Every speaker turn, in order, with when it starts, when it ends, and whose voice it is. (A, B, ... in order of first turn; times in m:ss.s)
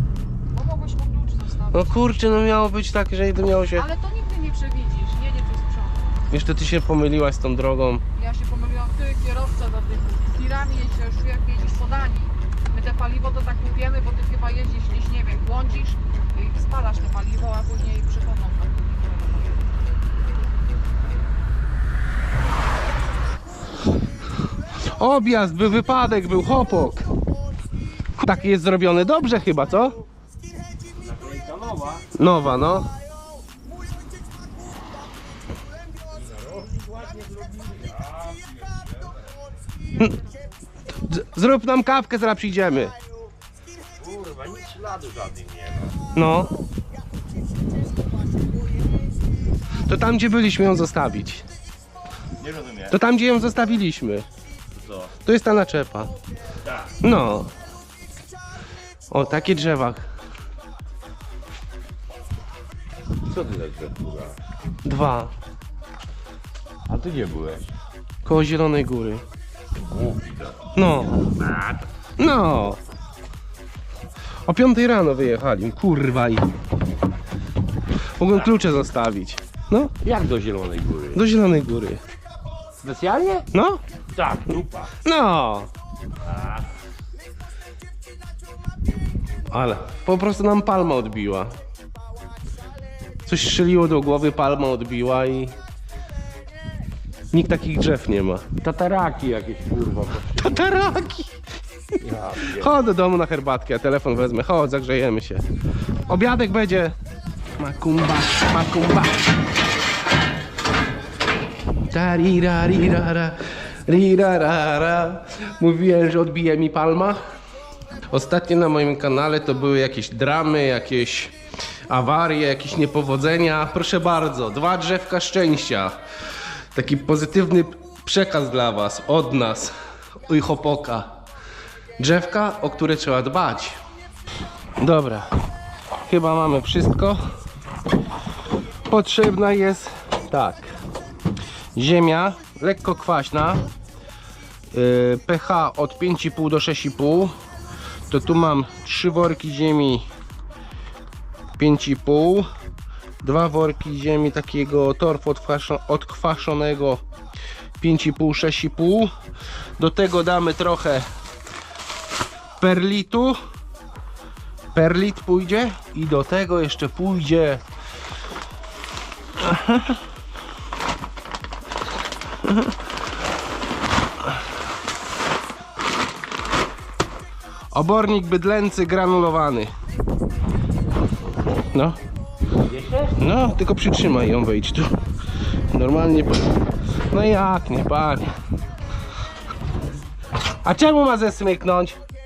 0:00.5-0:01.9 A
0:01.7-0:03.8 B
0:03.7-0:06.2 A
0:06.3-0:08.0 B
0:08.1-0:19.6 A
0:24.8-0:27.1 B
0:28.2-0:30.0 B
0:30.9-0:32.1 C
0:32.1-0:32.9 B
0:36.1-0:39.3 C
0:40.2-0:40.4 A
0:41.0-0:43.0 B
0:44.0-0:46.0 C
0:46.1-0:46.6 B
0:49.9-0:51.4 B
0:52.4-0:53.0 C
0:52.9-0:54.3 B
0:54.8-0:55.1 C
0:55.2-0:56.1 B
0:56.6-0:56.9 C
0:57.0-0:57.5 B
0:59.1-1:00.1 B
1:03.3-1:04.4 C
1:04.8-1:05.3 B
1:06.9-1:07.7 C
1:08.2-1:09.2 B
1:09.7-1:11.9 C
1:10.7-1:11.2 B
1:12.2-1:12.8 B
1:14.4-1:16.5 B
1:18.2-1:19.9 B
1:20.0-1:21.2 C
1:21.1-1:22.0 B
1:22.8-1:23.4 C
1:23.5-1:23.8 B
1:24.1-1:24.9 C
1:25.0-1:25.7 B
1:26.2-1:26.7 C
1:29.5-1:31.6 B
1:33.2-1:35.6 B
1:37.3-1:38.6 B
1:38.6-1:40.6 C
1:40.4-1:41.3 B
1:42.0-1:42.7 C
1:42.5-1:45.4 B
1:46.0-1:46.9 B
1:47.6-1:49.2 B
1:51.9-1:57.2 B
1:58.1-2:01.3 B
2:01.9-2:06.0 B
2:06.7-2:11.1 B
2:12.0-2:13.8 B
2:14.8-2:15.3 B
2:16.1-2:17.2 B
2:18.9-2:20.7 B
2:21.7-2:23.7 B
2:24.7-2:27.3 B
2:28.1-2:30.0 B
2:31.6-2:32.5 B
2:33.2-2:37.0 B
2:37.8-2:39.1 B
2:39.8-2:41.1 B
2:42.6-2:43.4 B
2:44.7-2:47.6 B
2:49.4-2:50.0 B
2:52.4-2:52.7 B
2:57.7-2:59.7 B
3:01.7-3:02.0 B
3:02.6-3:03.2 C
3:03.2-3:04.9 B
3:05.7-3:06.6 B
3:07.1-3:08.3 B
3:10.6-3:12.0 B